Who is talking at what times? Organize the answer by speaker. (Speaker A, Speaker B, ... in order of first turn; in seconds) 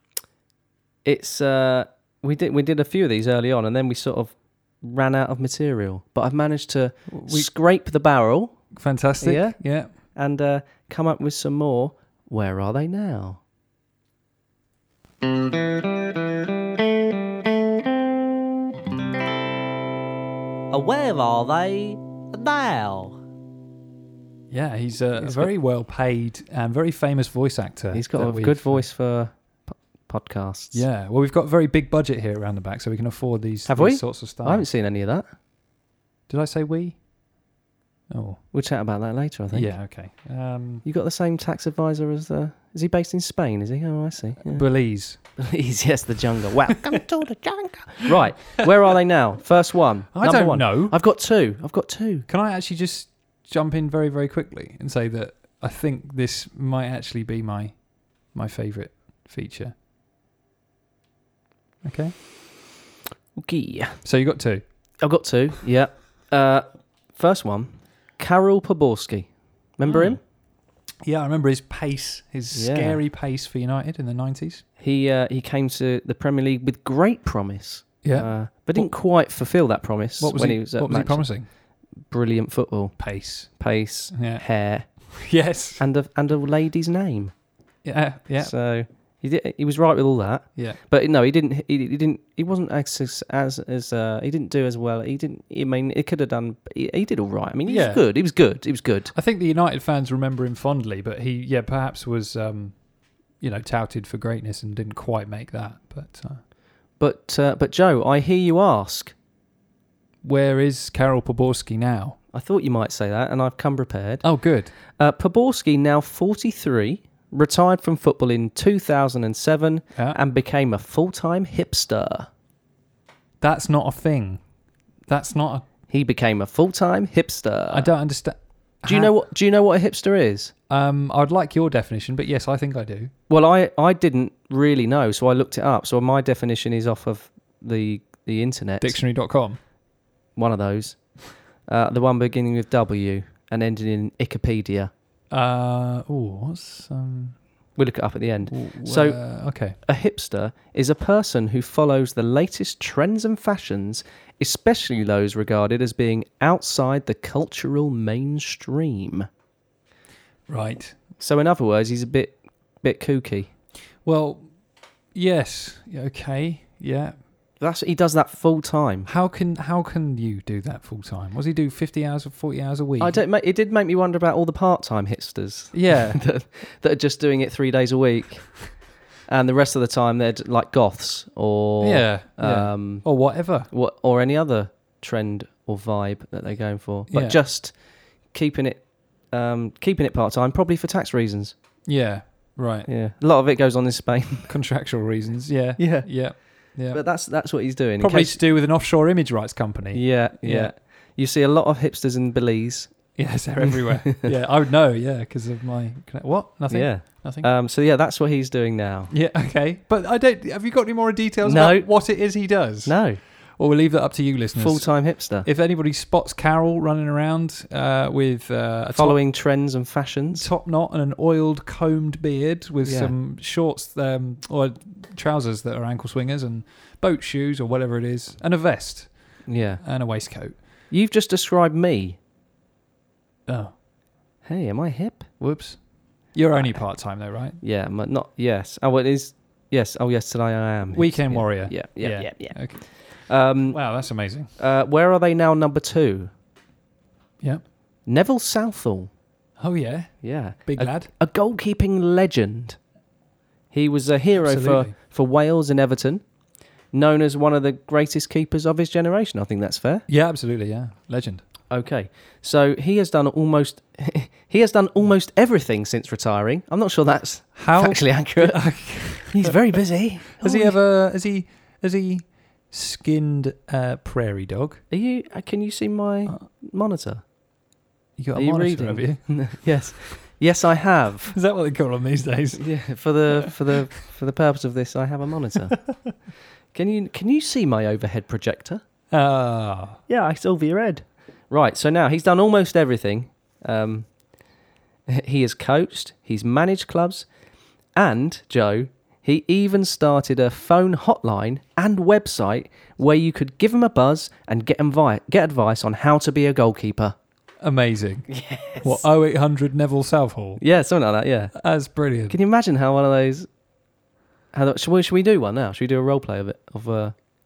Speaker A: 1.1-8.6, 9.2-13.4, 25.2-25.5, 27.9-30.8, 33.7-35.3, 38.5-39.7, 40.9-44.7, 45.4-52.3, 63.4-64.0, 65.0-70.2, 72.5-73.0, 74.8-81.3, 82.1-83.0, 83.5-85.1, 85.8-87.3, 88.4-99.1, 107.0-109.2, 112.3-114.2, 114.9-122.3, 125.9-127.9, 128.8-130.5, 133.3-139.0, 140.4-144.9, 147.8-149.2, 149.8-159.3, 161.2-163.5, 167.6-169.1, 173.0-187.8, 188.3-191.6, 192.9-194.5, 195.8-196.1, 196.9-198.4, 199.9-202.9, 203.7-204.3, 206.7-209.1, 211.4-211.9, 212.8-213.2, 214.6-215.5, 218.9-220.5, 222.8-223.1, 229.5-229.8, 230.9-232.2, 234.4-235.3, 237.6-243.8, 244.6-246.3, 248.1-249.1, 250.2-252.8, 253.7-256.2, 256.9-260.1, 261.7-270.8, 274.9-277.2, 278.4-281.4, 282.6-285.8, 286.7-288.8, 290.1-294.1, 295.1-297.3, 297.9-307.1, 308.3-309.0, 310.6-311.6, 312.3-313.5, 314.5-317.1
Speaker B: 7.1-7.5, 8.7-9.9, 24.5-28.9, 30.7-34.7, 36.3-37.0, 38.1-38.4, 39.5-40.9, 44.5-45.2, 50.1-51.0, 52.3-59.7, 61.8-62.2, 64.0-64.6, 69.9-70.2, 71.0-74.6, 78.0-78.9, 80.2-81.5, 83.0-83.5, 84.1-84.4, 85.1-85.8, 87.8-88.5, 97.7-98.0, 99.1-102.8, 103.4-106.4, 110.2-112.2, 114.2-114.7, 123.4-124.4, 125.1-125.7, 127.7-129.1, 130.7-133.1, 138.8-139.6, 145.3-147.4, 148.5-149.8, 160.5-161.0, 164.0-164.5, 165.1-167.2, 169.1-173.2, 175.7-176.2, 181.8-183.7, 187.1-187.4, 191.9-192.9, 194.5-197.0, 198.0-200.7, 203.2-207.5, 209.1-219.2, 220.3-230.6, 233.5-233.7, 235.4-237.6, 240.9-243.0, 243.7-244.5, 249.6-251.1, 254.4-254.9, 260.1-261.4, 267.6-269.6, 270.4-274.8, 278.2-279.3, 281.3-282.7, 289.1-290.0, 307.6-310.6, 311.6-312.4
Speaker C: 20.7-23.2